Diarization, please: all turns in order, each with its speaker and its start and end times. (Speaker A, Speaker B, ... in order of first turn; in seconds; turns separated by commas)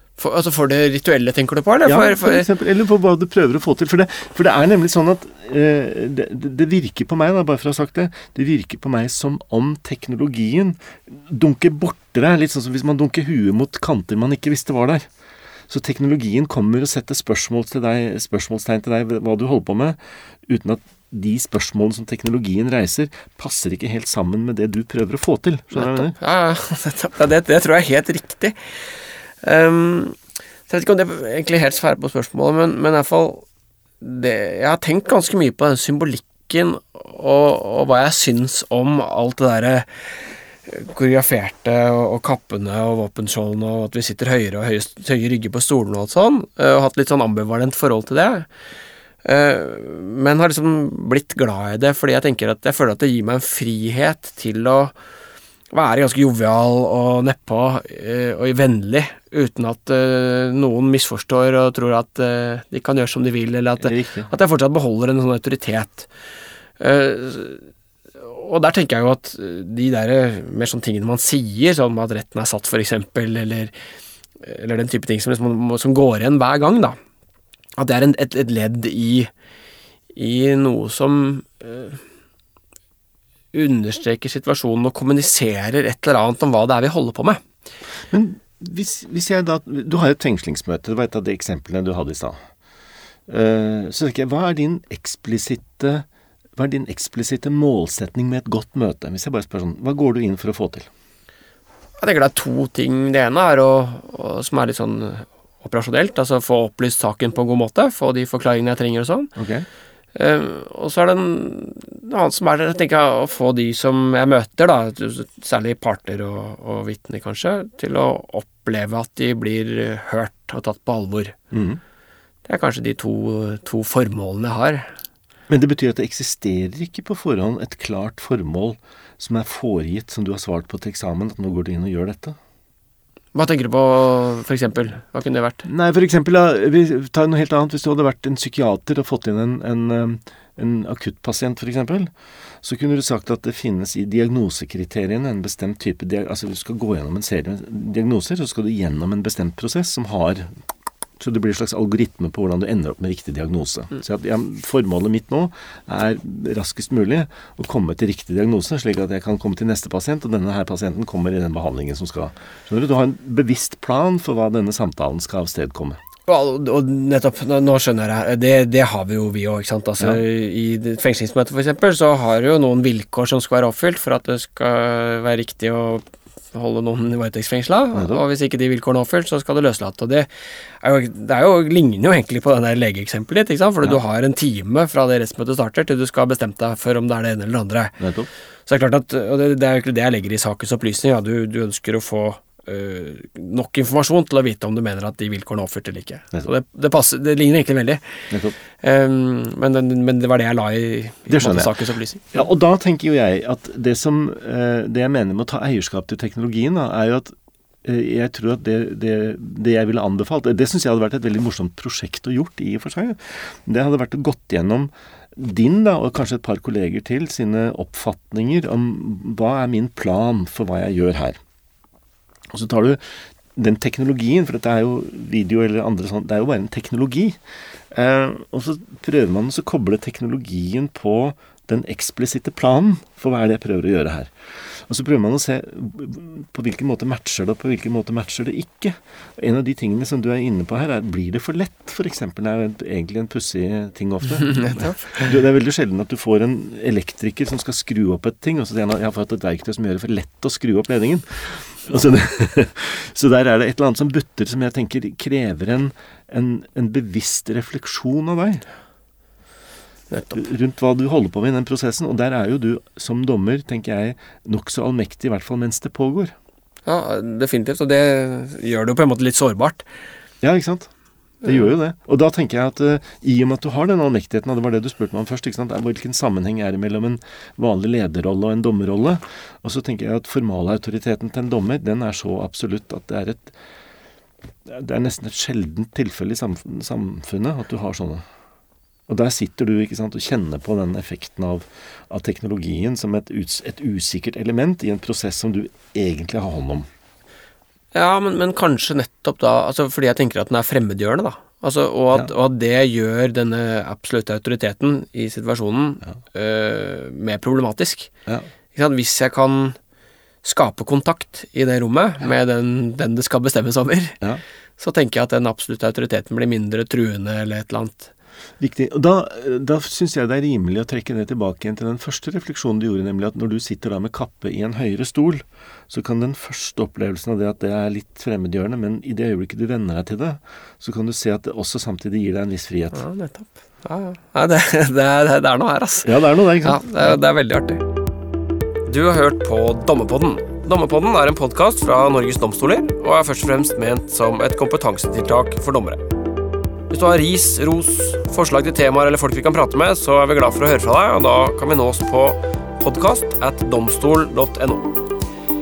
Speaker A: 0.2-2.5, Speaker B: 1.9-15.1, Speaker B: 15.7-26.2, Speaker A: 25.7-33.5, Speaker A: 34.0-48.5, Speaker A: 49.2-55.0, Speaker A: 55.7-66.1, Speaker B: 63.8-64.3, Speaker A: 66.8-67.7, Speaker A: 68.2-73.7, Speaker A: 74.4-77.0, Speaker A: 77.8-79.3, Speaker A: 80.2-82.0, Speaker A: 83.5-87.4, Speaker B: 88.1-92.4, Speaker B: 93.3-96.1, Speaker B: 96.6-100.9, Speaker A: 102.0-109.3, Speaker B: 109.4-109.7, Speaker A: 110.2-121.4, Speaker B: 121.5-121.8, Speaker A: 122.5-124.9, Speaker B: 125.5-132.4, Speaker A: 133.3-135.7, Speaker B: 135.7-142.1, Speaker B: 142.6-150.5, Speaker B: 151.2-166.0, Speaker A: 166.3-180.3, Speaker B: 177.9-178.2, Speaker A: 180.8-188.0, Speaker B: 188.0-188.3, Speaker A: 188.7-202.4, Speaker B: 198.3-198.6, Speaker B: 201.3-201.8, Speaker B: 202.3-207.3, Speaker B: 207.8-221.4, Speaker B: 222.5-223.0, Speaker B: 223.6-227.4, Speaker B: 227.9-258.6, Speaker A: 244.3-245.3, Speaker A: 260.1-260.4, Speaker B: 260.4-266.4, Speaker A: 266.9-269.8, Speaker B: 270.4-270.9, Speaker A: 271.4-271.7, Speaker B: 271.4-283.6, Speaker B: 284.7-288.2, Speaker B: 289.1-296.9, Speaker A: 297.9-308.1, Speaker A: 308.8-309.8, Speaker A: 310.4-314.2, Speaker A: 314.8-318.1, Speaker B: 318.6-333.1, Speaker A: 332.9-337.8, Speaker B: 336.1-337.2, Speaker A: 338.9-346.0, Speaker A: 346.9-354.9